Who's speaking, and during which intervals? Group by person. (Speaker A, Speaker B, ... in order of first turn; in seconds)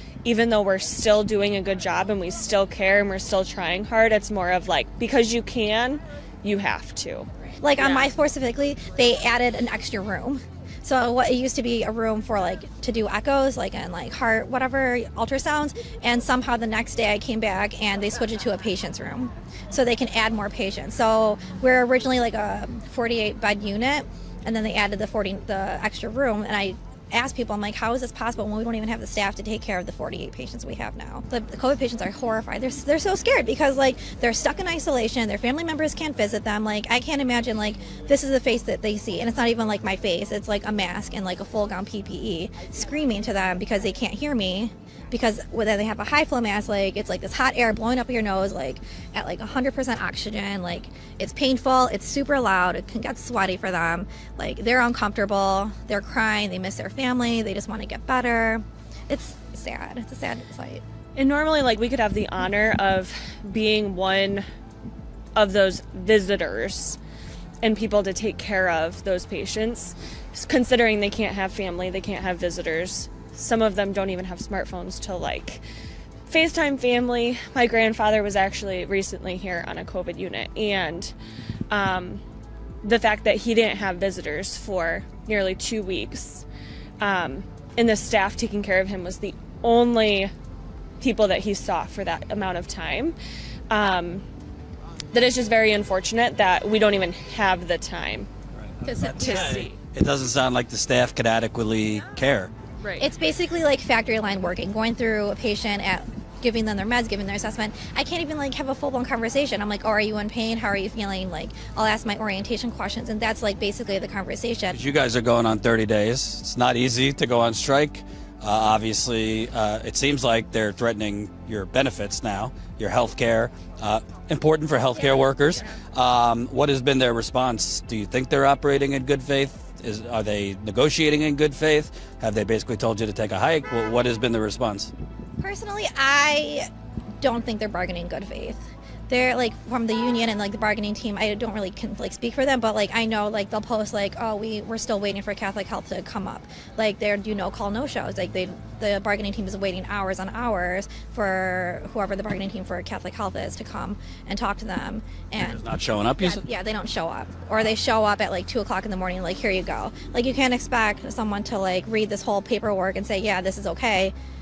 Speaker A: 0.2-8.1, 61.2-64.5, 65.3-67.0, 67.6-75.6, 76.3-81.1, 81.7-82.2, 82.8-86.5, 87.0-90.3, 91.0-93.2, 93.7-94.2, 95.1-98.3, 98.8-99.8
Speaker B: 7.6-60.8, 103.0-114.8, 135.4-136.7, 137.2-155.6, 156.2-164.1
Speaker C: 98.6-102.5, 114.7-134.9, 155.4-156.4